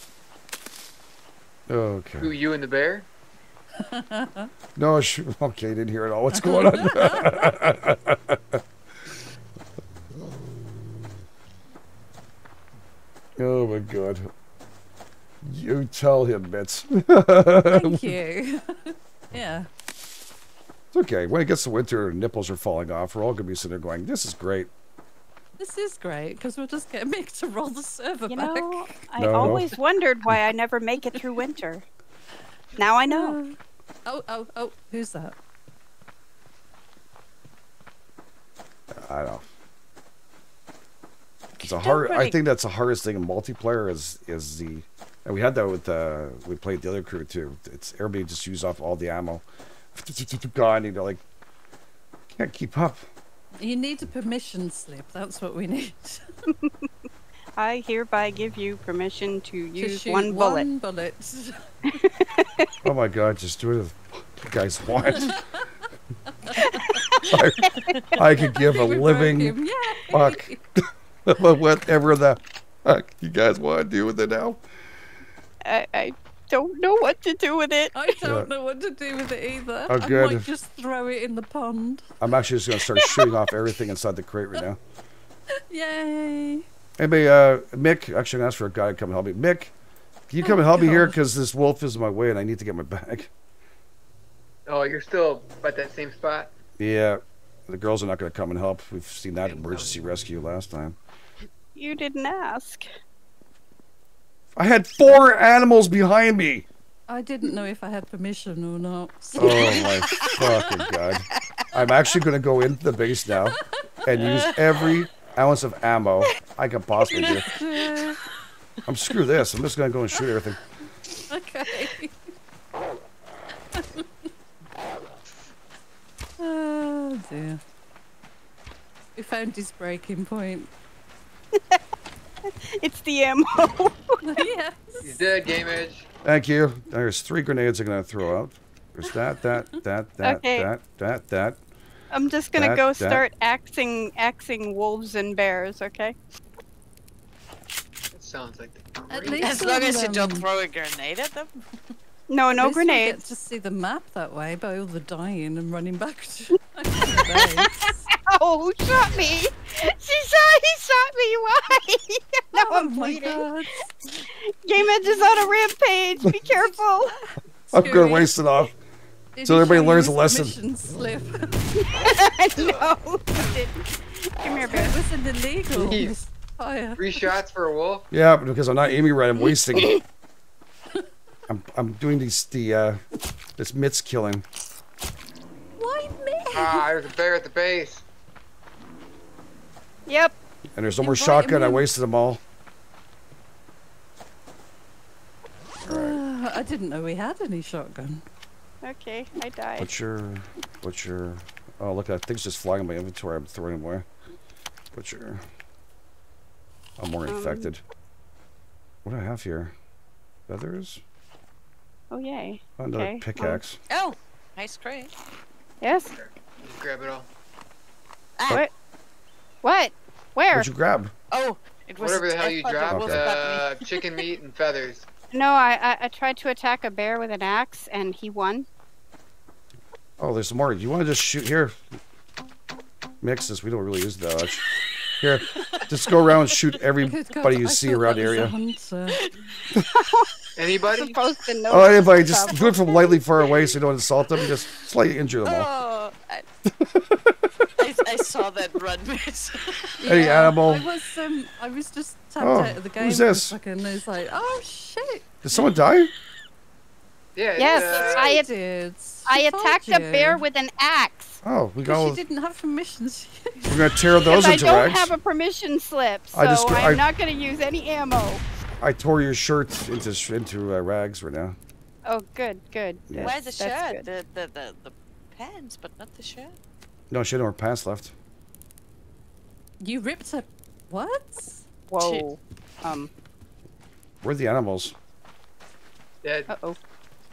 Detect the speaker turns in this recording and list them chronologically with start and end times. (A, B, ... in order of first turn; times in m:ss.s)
0:01.7-0:02.3 A
0:02.2-0:03.1 B
0:03.8-0:04.5 C
0:04.8-0:08.6 A
0:06.3-0:07.4 C
0:13.4-0:14.3 A
0:15.4-0:18.1 A
0:17.6-0:19.7 C
0:20.9-0:24.7 A
0:25.6-0:29.6 C
0:28.3-0:31.8 D
0:29.2-0:29.7 A
0:32.8-0:33.4 D
0:33.1-0:35.3 C
0:38.9-0:39.4 A
0:41.6-0:51.2 A
0:41.6-0:42.4 C
0:52.3-0:53.1 A
0:53.6-0:56.3 C
0:57.6-1:00.6 D
0:59.8-1:01.7 C
1:02.0-1:02.7 D
1:02.8-1:05.4 A
1:05.2-1:05.7 C
1:06.4-1:07.0 C
1:06.5-1:07.9 D
1:07.3-1:09.6 A
1:08.3-1:10.6 C
1:10.1-1:14.6 A
1:15.6-1:18.0 D
1:17.9-1:22.1 C
1:18.2-1:18.5 A
1:19.9-1:20.5 A
1:22.2-1:24.8 A
1:23.0-1:23.4 D
1:25.6-1:26.6 C
1:27.0-1:29.7 A
1:30.3-1:33.3 A
1:30.4-1:31.2 C
1:34.7-1:36.5 B
1:36.8-1:41.0 A
1:39.4-1:39.9 B
1:41.8-1:42.9 D
1:44.6-1:46.7 A
1:47.1-1:50.8 C
1:49.4-1:57.5 A
1:50.1-1:50.4 E
1:54.2-1:54.8 E
1:57.1-1:57.8 E
1:57.2-1:58.2 C
1:58.8-2:00.6 A
2:01.3-2:02.3 C
2:03.7-2:04.0 C
2:06.4-2:07.6 C
2:09.2-2:10.7 C
2:11.5-2:11.8 D
2:12.5-2:14.2 D
2:14.2-2:15.3 C
2:15.0-2:16.1 B
2:16.2-2:21.6 A
2:20.2-2:20.7 D
2:22.1-2:26.1 D
2:22.6-2:23.2 A
2:28.1-2:29.7 B
2:29.1-2:30.4 C
2:29.3-2:31.5 E
2:32.3-2:33.2 D
2:32.6-2:38.0 C
2:37.2-2:43.5 D
2:42.5-2:43.8 C
2:44.5-2:47.2 D
2:47.7-2:48.3 C
2:47.7-2:48.8 A
2:49.3-2:51.6 C
2:49.4-2:50.6 A
2:51.8-2:55.0 D
2:52.0-2:52.8 B
2:54.6-2:57.2 C
2:55.7-2:56.1 B
2:57.0-2:58.0 B
2:58.1-3:00.0 A
3:01.5-3:03.0 A
3:03.6-3:04.4 A
3:05.8-3:06.9 C
3:06.5-3:08.0 B
3:10.1-3:10.3 D
3:10.7-3:12.4 A
3:11.0-3:11.8 C
3:15.8-3:16.2 A
3:15.9-3:18.2 C
3:18.8-3:19.9 D
3:19.8-3:24.1 A
3:24.9-3:25.4 A
3:27.0-3:27.8 A
3:27.3-3:27.7 D
3:29.0-3:29.7 A
3:30.5-3:31.0 A
3:32.1-3:33.6 D
3:32.8-3:33.8 A
3:33.9-3:35.1 E
3:35.8-3:36.1 D
3:36.1-3:37.3 B
3:39.6-3:40.7 D
3:40.5-3:41.1 A
3:41.3-3:43.8 E
3:42.0-3:45.1 B
3:42.9-3:43.3 A
3:45.3-3:48.7 D
3:50.2-3:52.0 A
3:53.2-3:54.6 A
3:55.2-3:58.5 A
3:57.0-3:59.2 C
3:59.9-4:03.2 D
4:00.6-4:01.2 B
4:01.7-4:05.7 A
4:05.4-4:06.4 E
4:06.7-4:07.7 A
4:07.8-4:10.3 E
4:10.0-4:15.7 C
4:10.0-4:10.9 A
4:12.4-4:13.6 A
4:15.4-4:16.1 A
4:17.3-4:18.4 B
4:17.6-4:18.5 D
4:17.6-4:20.4 C
4:19.3-4:21.4 D
4:21.4-4:22.2 A
4:21.8-4:24.0 C
4:23.7-4:25.1 A
4:24.2-4:28.4 D
4:26.3-4:27.0 A
4:28.8-4:31.6 A
4:32.0-4:34.0 D
4:33.1-4:33.3 A
4:33.2-4:36.5 E
4:37.1-4:38.1 A
4:39.8-4:41.6 C
4:41.9-4:43.1 D
4:42.0-4:42.3 E
4:44.2-4:44.9 A
4:46.2-4:46.5 B
4:46.5-4:46.8 D